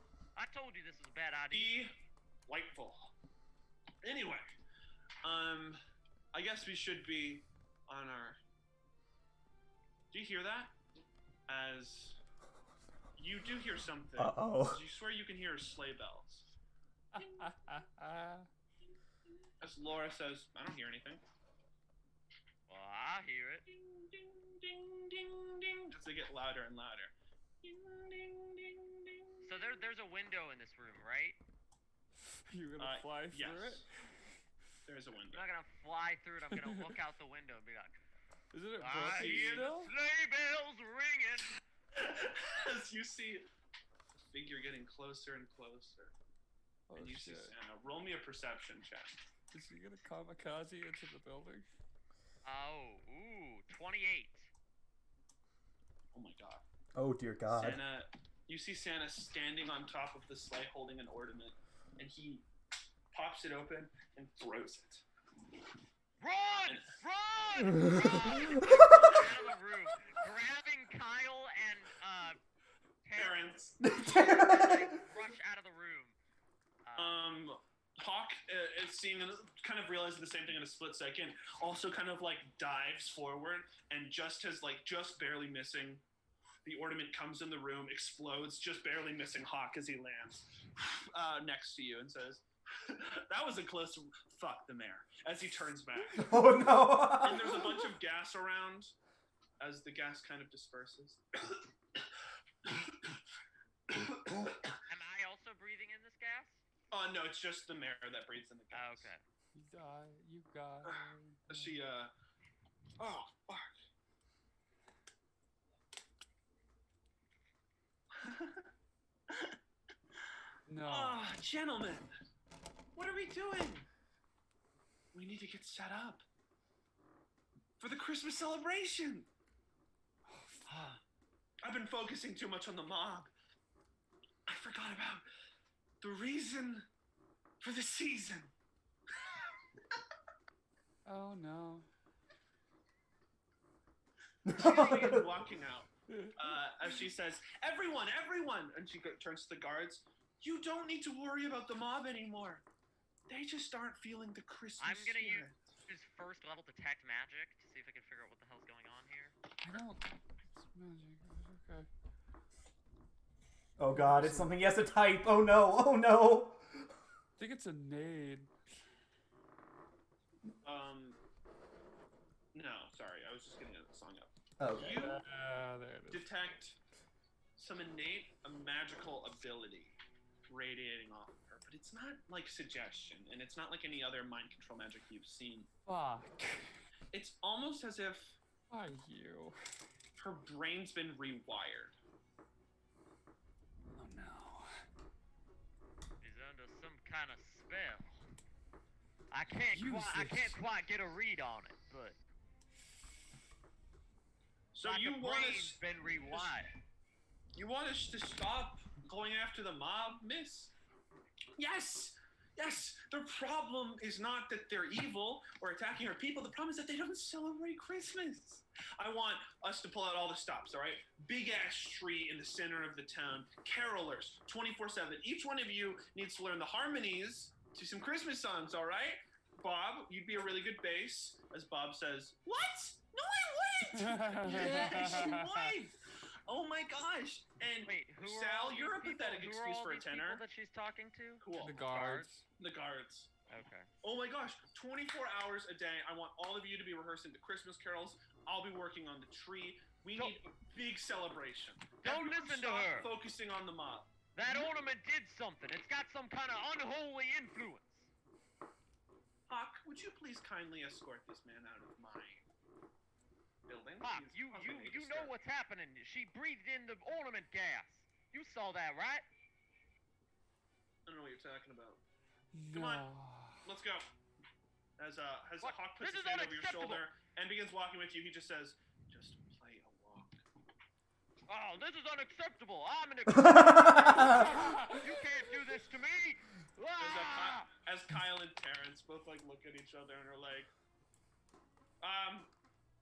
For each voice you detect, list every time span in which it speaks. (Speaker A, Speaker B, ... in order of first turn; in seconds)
Speaker A: 0.3-1.8, 22.7-23.6, 29.4-31.4, 35.3-38.0, 38.8-41.5, 52.4-54.5, 66.2-72.4, 73.0-73.4, 74.1-76.2, 76.8-77.2, 104.8-106.6, 108.7-109.2, 154.8-159.3, 196.2-198.2, 199.3-202.2, 204.8-206.7, 237.8-242.2, 243.5-243.9, 252.0-253.1, 254.3-258.1, 264.0-269.2, 275.6-277.0, 281.5-287.7
Speaker B: 1.5-1.9, 2.5-3.1, 4.0-4.4, 5.2-5.8, 6.3-8.4, 10.1-10.7, 11.5-12.2, 13.2-16.5, 19.6-21.2, 23.7-29.5, 32.8-33.9, 34.9-35.5, 39.1-39.7, 42.0-43.5, 44.1-46.1, 46.9-49.2, 56.1-56.6, 57.5-62.5, 63.1-65.0, 66.6-67.0, 68.2-69.2, 73.2-74.3, 77.0-86.0, 86.6-96.4, 97.2-99.0, 99.6-101.6, 102.6-103.2, 103.9-104.7, 106.9-109.1, 111.5-112.1, 113.0-113.7, 118.2-118.7, 119.3-119.5, 120.8-122.1, 122.9-123.9, 125.1-126.2, 127.8-129.3, 130.7-131.0, 131.6-133.3, 134.5-135.2, 136.0-136.9, 137.6-138.5, 144.5-152.6, 153.3-155.6, 170.6-171.2, 172.5-175.2, 176.1-176.8, 177.6-179.9, 180.5-185.7, 187.1-188.4, 190.2-192.0, 204.7-206.6, 207.5-210.7, 211.6-240.4, 241.4-243.3, 244.0-254.8, 259.5-262.4, 263.7-265.3, 271.1-272.0, 272.7-273.1, 273.6-274.1, 275.0-280.4, 287.0-290.7, 292.0-292.5
Speaker C: 14.2-14.8, 56.9-57.8, 73.8-74.9, 96.2-97.5, 144.5-145.2, 163.8-166.6, 174.6-175.1
Speaker D: 17.1-18.5, 32.5-33.9, 36.5-36.9, 38.5-39.9, 46.9-47.5, 49.5-51.7, 109.5-111.7, 120.7-121.3, 141.1-141.9, 146.1-146.5, 159.6-161.9, 163.9-164.5, 167.4-168.5, 174.8-176.3, 185.9-186.7, 188.7-189.6, 193.9-194.7, 199.7-200.6, 233.9-235.7, 241.6-242.4, 272.5-273.6, 284.2-284.9